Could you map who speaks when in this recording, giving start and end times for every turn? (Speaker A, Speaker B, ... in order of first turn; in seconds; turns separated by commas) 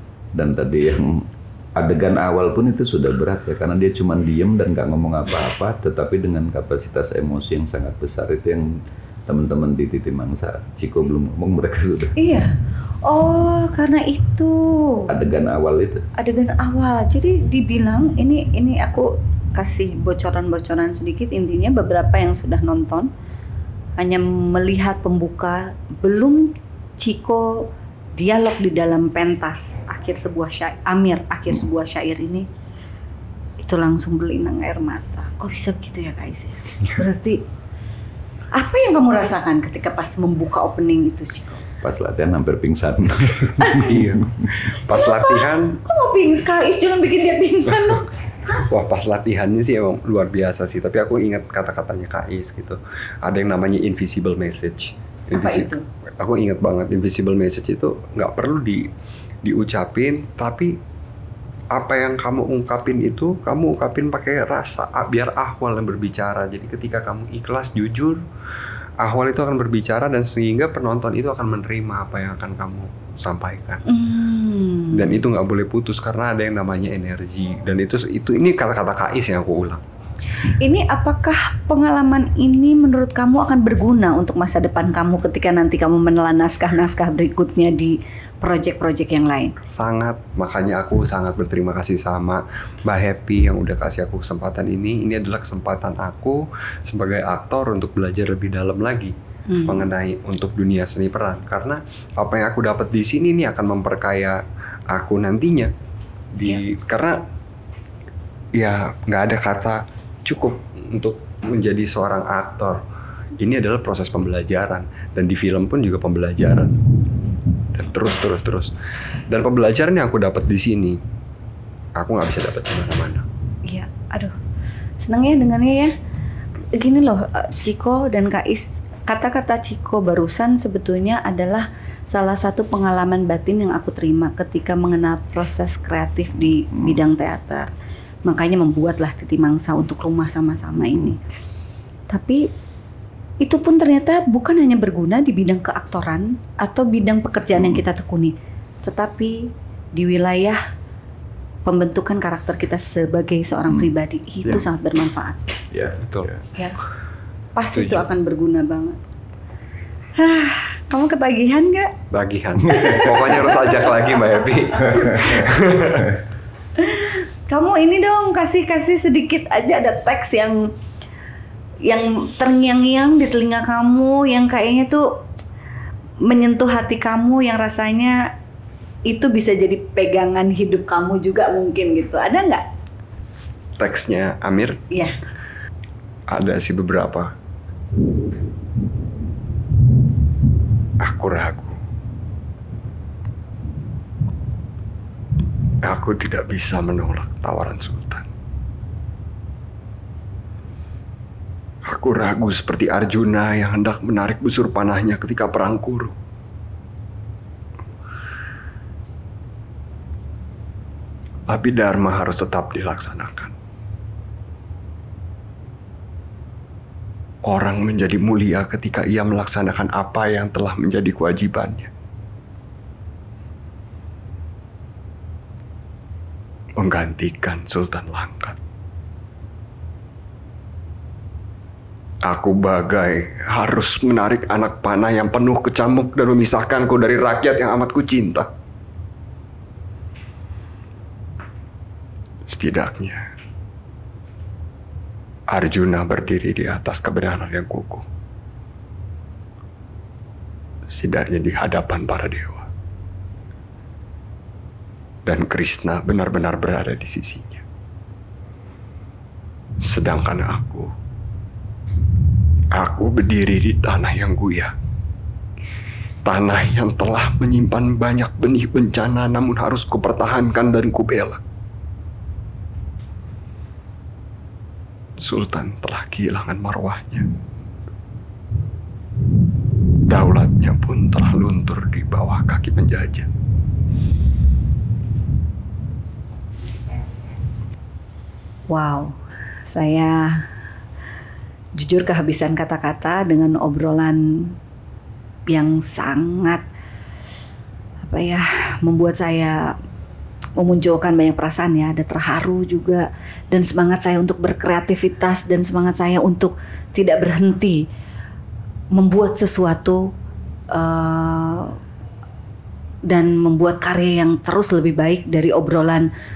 Speaker A: 0.3-12.1, Speaker B: 12.2-15.1, Speaker A: 15.1-16.1, Speaker B: 16.1-23.1, Speaker B: 24.0-32.5, Speaker B: 33.6-37.4, Speaker B: 38.5-41.6, Speaker A: 41.8-44.5, Speaker B: 43.6-44.0, Speaker C: 43.8-45.8, Speaker B: 44.9-48.1, Speaker C: 48.5-58.9, Speaker B: 55.3-55.8, Speaker C: 59.4-60.8, Speaker C: 61.7-68.2, Speaker C: 69.0-73.8, Speaker B: 73.8-75.1, Speaker C: 74.9-79.8, Speaker B: 80.4-89.5, Speaker C: 89.6-99.1, Speaker B: 99.5-99.9, Speaker C: 99.7-105.7, Speaker C: 106.3-107.2, Speaker C: 108.5-112.8, Speaker C: 113.4-116.8, Speaker C: 117.7-118.7, Speaker C: 119.3-121.0, Speaker C: 122.0-123.2, Speaker B: 123.7-124.3, Speaker B: 125.0-125.9, Speaker B: 126.7-137.7, Speaker A: 136.4-137.0, Speaker B: 138.2-141.2, Speaker B: 142.1-142.4, Speaker B: 143.4-150.6, Speaker B: 151.6-155.5, Speaker A: 155.7-156.4, Speaker C: 156.0-156.3, Speaker B: 157.5-159.0, Speaker C: 157.7-158.0, Speaker B: 160.2-161.9, Speaker C: 162.1-166.2, Speaker B: 162.7-163.5, Speaker B: 166.8-170.7, Speaker B: 171.8-175.2, Speaker B: 176.2-178.3, Speaker B: 179.1-182.6, Speaker C: 183.8-184.8, Speaker B: 184.9-185.2, Speaker C: 186.3-187.3, Speaker C: 191.0-191.8, Speaker C: 195.8-198.3, Speaker C: 201.8-206.1, Speaker C: 211.5-213.5, Speaker C: 217.4-221.9, Speaker C: 226.8-228.6, Speaker C: 232.2-238.5, Speaker C: 242.4-243.3, Speaker C: 245.5-248.0, Speaker C: 250.9-252.7, Speaker C: 255.2-257.6, Speaker C: 259.8-260.9, Speaker C: 262.7-264.7, Speaker C: 266.2-271.4, Speaker C: 275.2-277.3, Speaker C: 280.1-283.3, Speaker B: 288.7-290.4, Speaker B: 291.8-294.6, Speaker B: 295.5-296.6, Speaker B: 298.0-299.8, Speaker B: 300.6-307.8, Speaker B: 308.9-310.1, Speaker B: 310.7-311.8, Speaker B: 313.1-316.1